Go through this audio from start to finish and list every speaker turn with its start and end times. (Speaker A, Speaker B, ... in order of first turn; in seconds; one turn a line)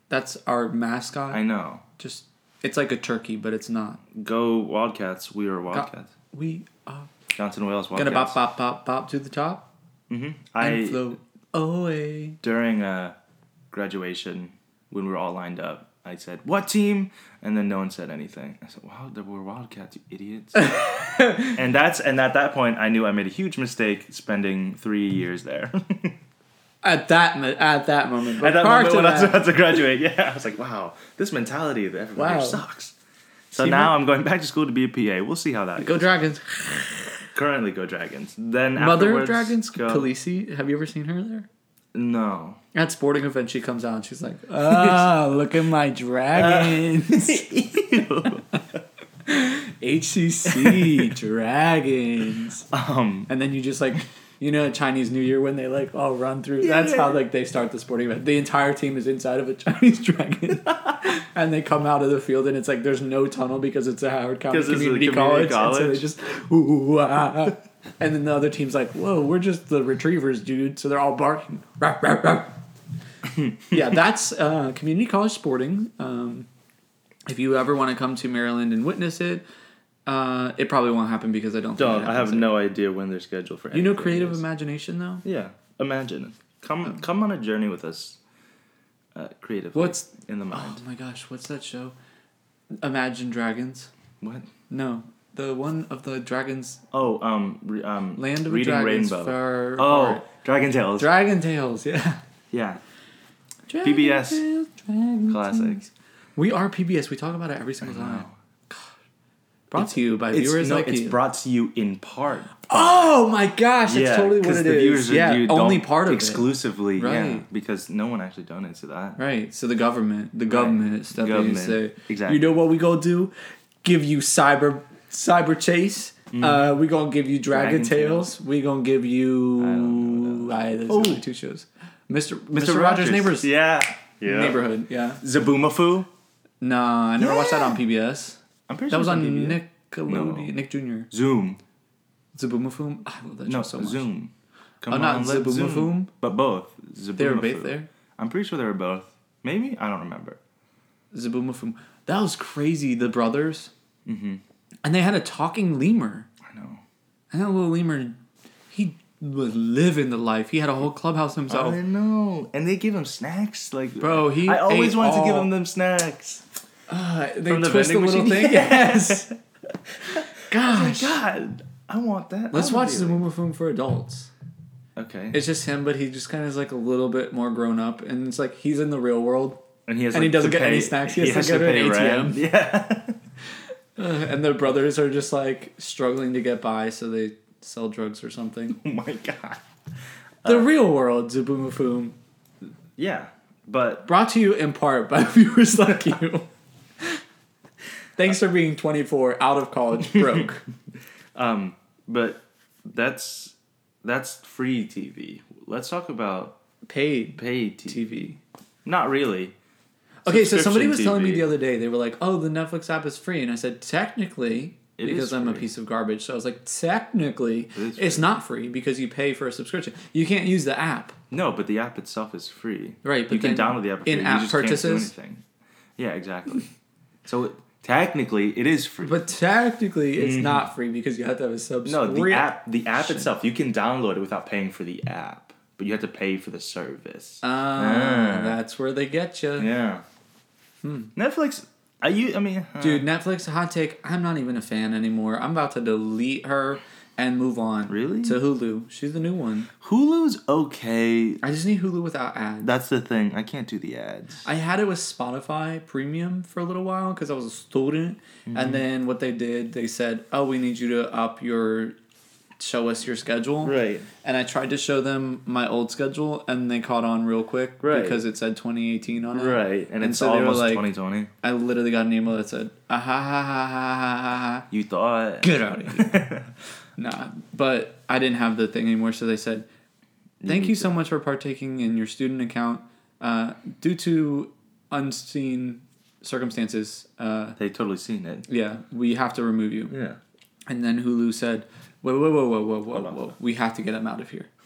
Speaker A: 0.1-1.4
Speaker B: 1.3-1.8
Speaker A: 2.0-4.0
Speaker B: 4.1-6.1
Speaker A: 5.7-7.1
Speaker B: 7.3-8.4
Speaker A: 7.9-9.7
Speaker B: 10.1-11.2
Speaker A: 10.6-12.4
Speaker B: 12.4-13.2
Speaker B: 13.7-20.8
Speaker A: 20.6-21.6
Speaker B: 21.5-26.2
Speaker A: 26.8-29.5
Speaker B: 28.4-32.9
Speaker A: 32.1-32.6
Speaker B: 33.5-36.1
Speaker A: 33.5-34.0
Speaker A: 35.8-37.2
Speaker B: 37.3-40.1
Speaker A: 38.8-41.5
Speaker B: 41.9-42.6
Speaker A: 42.7-47.5
Speaker B: 44.6-45.2
Speaker B: 46.3-48.8
Speaker A: 48.2-48.6
Speaker A: 49.2-52.7
Speaker B: 50.5-51.1
Speaker B: 52.7-53.3
Speaker A: 53.3-72.6
Speaker B: 56.6-57.2
Speaker B: 60.7-60.9
Speaker B: 64.5-66.1
Speaker A: 73.7-76.5
Speaker A: 77.2-79.4
Speaker A: 80.0-82.6
Speaker B: 81.8-84.4
Speaker A: 83.7-85.2
Speaker B: 85.2-88.2
Speaker B: 89.1-90.8
Speaker A: 89.7-91.9
Speaker A: 92.8-93.9
Speaker B: 94.2-94.5
Speaker A: 94.7-96.8
Speaker B: 96.9-101.1
Speaker A: 98.2-100.2
Speaker A: 101.0-102.2
Speaker B: 102.5-102.8
Speaker A: 103.7-108.8
Speaker B: 103.8-104.4
Speaker B: 105.3-105.9
Speaker B: 107.8-108.3
Speaker A: 109.7-111.2
Speaker B: 109.8-113.2
Speaker A: 112.6-117.5
Speaker B: 113.9-119.2
Speaker A: 119.2-133.5
Speaker B: 120.5-122.4
Speaker B: 126.3-126.6
Speaker B: 127.5-128.3
Speaker B: 129.6-131.2
Speaker B: 132.5-134.7
Speaker A: 134.2-135.2
Speaker B: 135.2-136.1
Speaker A: 136.6-141.1
Speaker B: 137.2-137.8
Speaker B: 138.7-140.5
Speaker B: 141.1-141.6
Speaker A: 142.3-144.1
Speaker B: 143.5-150.4
Speaker A: 144.9-146.1
Speaker A: 147.2-147.9
Speaker A: 151.1-153.7
Speaker B: 154.1-154.4
Speaker A: 154.8-156.3
Speaker B: 156.4-156.8
Speaker A: 157.3-158.2
Speaker A: 158.7-161.8
Speaker B: 161.5-166.4
Speaker A: 164.0-165.5
Speaker A: 166.9-169.3
Speaker B: 167.5-169.3
Speaker B: 170.0-173.2
Speaker A: 170.5-171.2
Speaker A: 172.5-174.3
Speaker B: 174.9-175.4
Speaker A: 175.3-182.4
Speaker B: 179.9-183.2
Speaker A: 184.0-188.8
Speaker B: 188.7-189.6
Speaker A: 190.4-192.2
Speaker B: 192.9-194.1
Speaker A: 194.1-196.5
Speaker A: 198.2-200.6
Speaker B: 200.1-200.4
Speaker B: 201.3-206.6
Speaker A: 206.8-208.4
Speaker B: 207.3-208.0
Speaker B: 208.8-209.5
Speaker A: 210.2-221.2
Speaker B: 210.2-211.5
Speaker B: 215.0-215.7
Speaker B: 217.7-218.4
Speaker B: 221.3-225.4
Speaker A: 223.0-225.1
Speaker B: 226.0-226.7
Speaker B: 227.2-229.3
Speaker A: 229.0-233.3
Speaker B: 230.2-230.7
Speaker B: 231.8-238.6
Speaker A: 237.4-239.7
Speaker B: 239.6-240.0
Speaker A: 240.8-241.1
Speaker B: 241.1-243.1
Speaker A: 242.8-249.7
Speaker B: 247.9-248.4
Speaker B: 249.8-251.4
Speaker A: 251.4-252.7
Speaker B: 252.6-254.4
Speaker A: 254.4-261.9
Speaker B: 258.5-258.8
Speaker A: 262.6-270.9
Speaker B: 263.6-264.1
Speaker B: 267.8-268.2
Speaker B: 269.3-271.3
Speaker A: 271.4-274.7
Speaker B: 274.7-276.5
Speaker A: 275.4-276.2
Speaker A: 277.0-279.7
Speaker B: 280.4-280.9
Speaker A: 280.4-287.6
Speaker B: 287.6-288.5
Speaker A: 288.5-289.9
Speaker B: 289.9-290.2
Speaker A: 290.7-294.5
Speaker B: 292.9-293.3